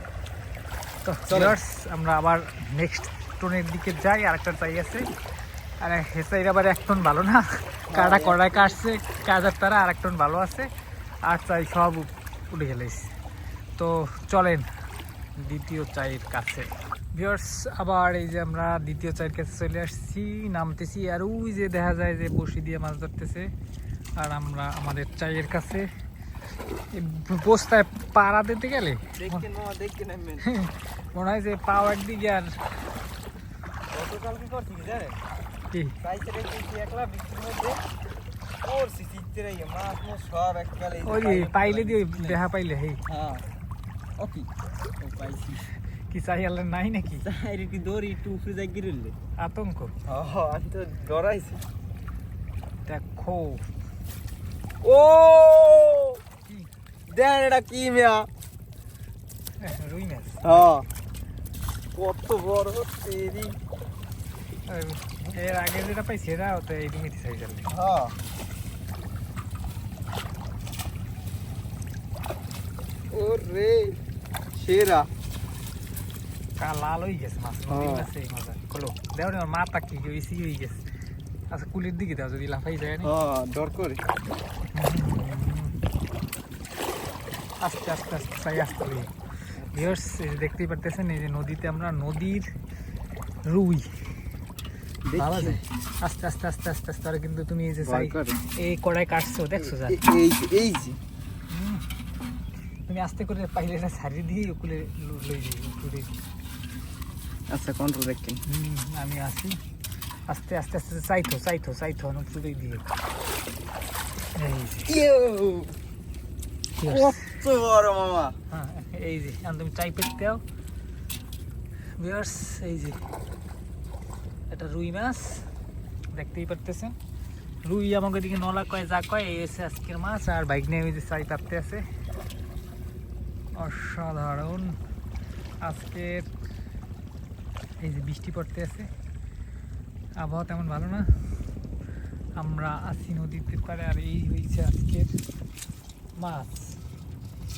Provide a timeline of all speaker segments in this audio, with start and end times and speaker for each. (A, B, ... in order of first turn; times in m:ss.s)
0:01.0-0:05.1 A
0:01.3-0:01.6 B
0:05.8-0:10.7 A
0:07.9-0:08.8 B
0:11.2-0:13.1 A
0:13.8-0:14.7 A
0:15.4-0:23.5 A
0:24.2-0:25.9 A
0:26.9-0:29.4 A
0:29.2-0:30.5 B
0:30.4-0:32.6 A
0:33.9-0:35.2 B
0:36.0-0:37.8 B
0:38.6-0:42.4 B
0:41.0-0:43.0 A
0:43.1-0:43.5 B
0:44.2-0:45.7 B
0:46.1-0:47.3 A
0:47.2-0:49.2 B
0:49.4-0:49.9 A
0:50.1-0:51.6 B
0:52.8-0:53.7 A
0:54.8-0:56.2 B
0:57.1-0:58.3 B
0:59.6-1:00.6 A
1:00.4-1:00.9 B
1:01.9-1:03.6 B
1:04.7-1:07.7 A
1:07.7-1:08.2 B
1:13.1-1:14.0 B
1:14.5-1:15.1 B
1:16.6-1:20.8 A
1:17.7-1:18.1 B
1:21.5-1:23.1 A
1:23.0-1:24.0 B
1:24.7-1:25.8 A
1:27.6-1:29.1 A
1:29.6-1:30.0 B
1:29.7-1:32.5 A
1:33.4-1:34.0 A
1:35.0-1:35.6 B
1:35.2-1:40.0 A
1:37.8-1:38.4 B
1:39.6-1:41.0 B
1:41.5-1:41.9 A
1:42.9-1:46.2 A
1:47.5-1:48.4 B
1:48.4-1:49.6 A
1:50.3-1:52.9 A
1:54.3-1:54.9 A
1:54.8-1:55.8 B
1:56.8-1:57.2 A
1:56.8-1:58.4 B
1:58.5-2:00.4 A
2:02.0-2:03.0 A
2:04.5-2:05.5 A
2:06.1-2:07.0 A
2:07.6-2:11.8 A
2:13.6-2:14.8 A
2:15.6-2:16.3 A
2:17.8-2:18.9 A
2:20.2-2:21.4 A
2:22.4-2:25.2 A
2:26.2-2:26.8 A